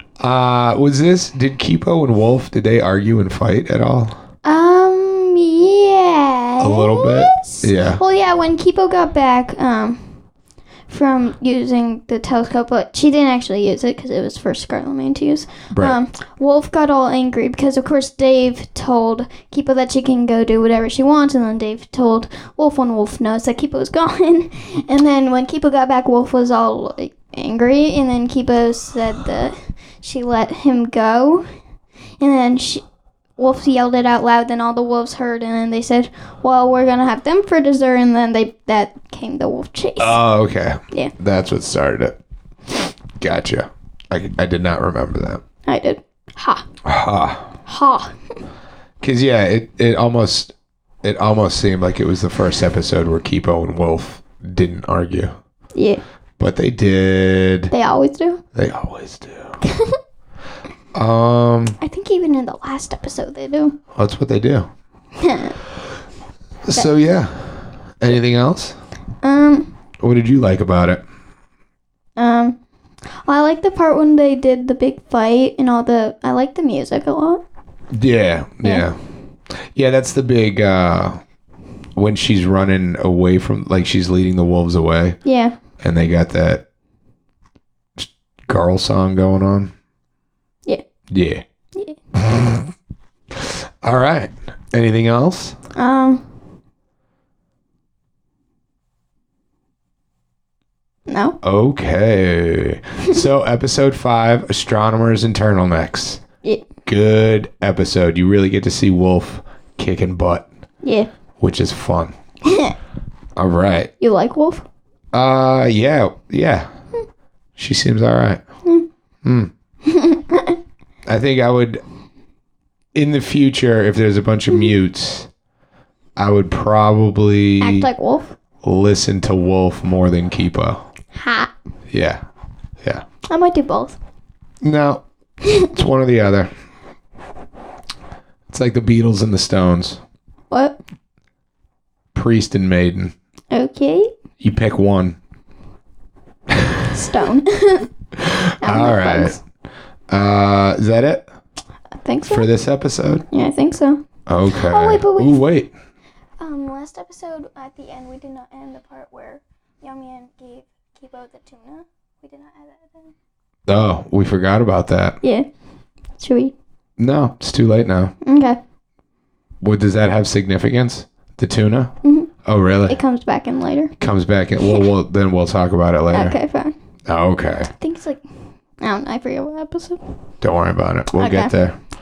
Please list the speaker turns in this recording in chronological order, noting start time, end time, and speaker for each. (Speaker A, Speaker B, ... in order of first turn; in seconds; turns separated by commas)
Speaker A: 0.2-4.2, Speaker B: 4.4-10.2, Speaker A: 6.6-8.0, Speaker B: 10.9-31.4, Speaker A: 15.7-16.0, Speaker B: 32.2-32.8, Speaker B: 33.4-40.2, Speaker A: 40.0-42.1, Speaker A: 43.2-45.4, Speaker B: 45.6-46.6, Speaker A: 46.8-47.5, Speaker B: 47.6-48.1, Speaker A: 49.0-55.3, Speaker B: 55.7-56.0, Speaker A: 56.4-57.7, Speaker B: 57.7-58.4, Speaker A: 58.5-59.6, Speaker B: 59.6-60.0, Speaker A: 60.9-61.8, Speaker B: 61.8-63.8, Speaker A: 63.9-64.7, Speaker B: 65.2-65.6, Speaker A: 66.6-68.7, Speaker B: 69.2-69.7, Speaker A: 70.0-71.0, Speaker B: 72.2-72.6, Speaker B: 73.2-77.4, Speaker A: 77.9-79.0, Speaker A: 79.5-81.2, Speaker A: 82.0-85.2, Speaker B: 85.2-85.5, Speaker A: 85.8-86.6, Speaker A: 88.0-89.7, Speaker A: 91.1-91.4, Speaker A: 92.2-92.7, Speaker A: 93.3-95.5, Speaker B: 95.8-96.2, Speaker B: 101.1-101.3, Speaker A: 101.4-106.2, Speaker A: 106.8-110.5, Speaker B: 110.8-111.1, Speaker A: 111.4-112.1, Speaker B: 112.5-112.7, Speaker A: 113.3-113.9, Speaker B: 114.0-114.6, Speaker A: 115.1-116.7, Speaker A: 117.6-118.4, Speaker A: 119.2-119.5, Speaker B: 119.8-120.6, Speaker A: 121.0-121.8, Speaker A: 122.9-125.3, Speaker A: 126.2-127.9, Speaker B: 127.6-128.3, Speaker A: 128.6-130.8, Speaker B: 131.1-131.5, Speaker A: 131.9-132.2, Speaker B: 133.3-134.0, Speaker A: 134.6-135.0, Speaker A: 135.6-136.5, Speaker A: 138.5-140.0, Speaker B: 140.5-140.8, Speaker A: 142.1-143.1, Speaker B: 143.5-144.1, Speaker A: 144.4-145.2, Speaker B: 146.9-147.9, Speaker A: 148.2-149.4, Speaker B: 148.6-149.4, Speaker A: 150.1-151.2, Speaker B: 152.0-152.4, Speaker A: 152.3-153.2, Speaker B: 153.3-154.0, Speaker A: 154.3-155.7, Speaker B: 154.5-155.4, Speaker B: 156.4-163.1, Speaker A: 163.7-165.2, Speaker B: 166.2-166.5, Speaker A: 167.0-168.1, Speaker B: 168.2-168.6, Speaker A: 169.6-171.9, Speaker B: 172.0-172.3, Speaker A: 172.4-172.9, Speaker B: 172.9-173.9, Speaker A: 174.0-176.4, Speaker B: 176.1-176.7, Speaker A: 177.1-177.7, Speaker B: 177.7-178.2, Speaker B: 178.8-180.0, Speaker A: 180.4-181.8, Speaker B: 181.1-181.5